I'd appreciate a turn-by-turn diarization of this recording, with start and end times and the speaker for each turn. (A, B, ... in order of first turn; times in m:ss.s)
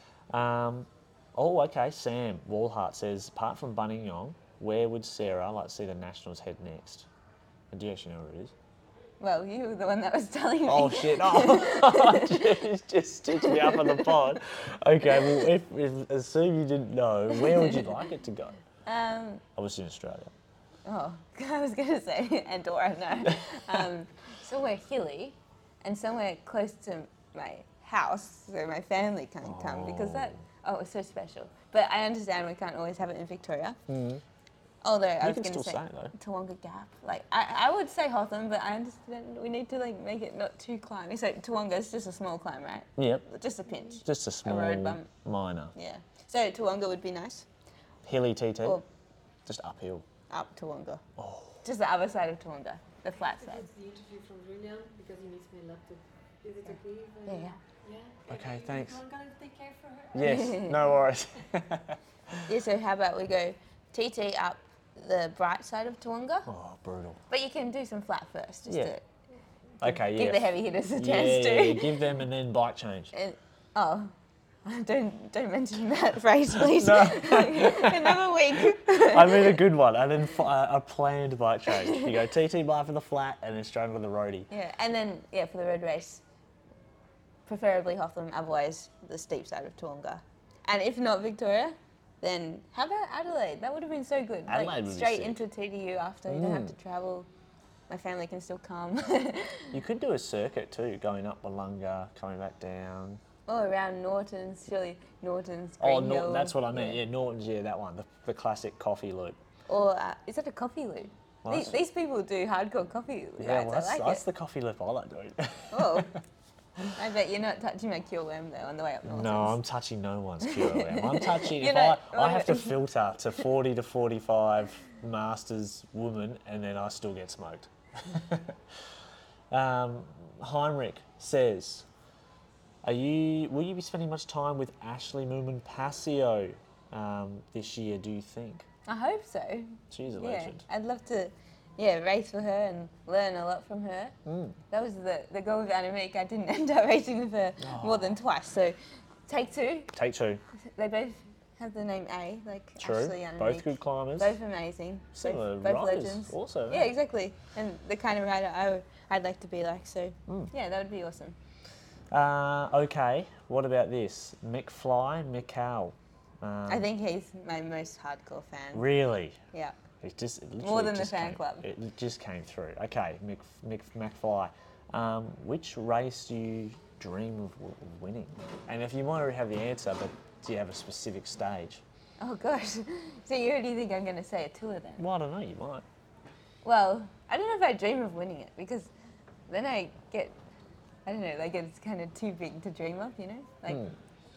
0:00.3-0:07.1 A
0:07.7-0:08.5 A
0:09.2-0:12.6 B
0:10.6-0:18.6 A
0:13.3-0:14.2 B
0:15.2-0:15.4 B
0:17.3-0:17.8 B
0:18.8-0:19.4 B
0:19.6-0:20.3 A
0:20.8-0:33.8 B
0:29.4-0:30.4 A
0:33.9-0:34.2 A
0:34.8-0:45.1 B
0:35.2-0:36.1 A
0:43.0-0:43.2 A
0:44.0-0:45.7 A
0:45.7-0:47.4 B
0:48.0-0:48.8 A
0:49.4-0:50.0 A
0:50.3-0:51.0 B
0:51.2-0:51.6 A
0:51.6-0:53.7 B
0:53.2-1:00.9 C
0:57.2-0:57.6 B
0:58.3-0:59.0 A
1:00.1-1:02.5 A
1:00.2-1:00.8 B
1:02.5-1:06.5 B
1:06.5-1:07.2 A
1:07.3-1:09.0 B
1:09.8-1:13.1 A
1:09.8-1:12.0 B
1:13.1-1:14.1 B
1:14.6-1:19.6 B
1:16.6-1:24.5 A
1:21.7-1:22.1 B
1:24.5-1:26.2 B
1:27.4-1:37.3 B
1:34.5-1:35.4 A
1:36.3-1:36.7 A
1:37.9-1:39.8 B
1:39.7-1:43.2 A
1:43.5-1:47.0 B
1:45.8-1:49.4 A
1:49.7-1:54.2 B
1:51.4-1:51.8 A
1:53.4-1:56.2 A
1:55.7-1:56.1 B
1:56.9-1:59.6 B
1:59.0-2:08.6 A
2:00.4-2:02.7 B
2:09.5-2:11.9 A
2:12.8-2:18.6 A
2:18.8-2:24.1 B
2:19.9-2:20.6 A
2:24.2-2:24.6 A
2:24.7-2:28.8 B
2:27.6-2:28.2 A
2:29.3-2:29.9 B
2:29.9-2:30.4 A
2:30.7-2:41.4 B
2:32.8-2:34.4 A
2:35.1-2:36.9 A
2:42.1-2:46.9 A
2:46.7-2:48.9 B
2:48.7-2:49.4 A
2:50.0-3:01.8 A
2:50.6-2:51.6 B
3:02.2-3:05.0 B
3:05.0-3:05.8 A
3:06.6-3:08.9 B
3:09.5-3:10.4 B
3:11.0-3:13.9 B
3:13.7-3:13.9 A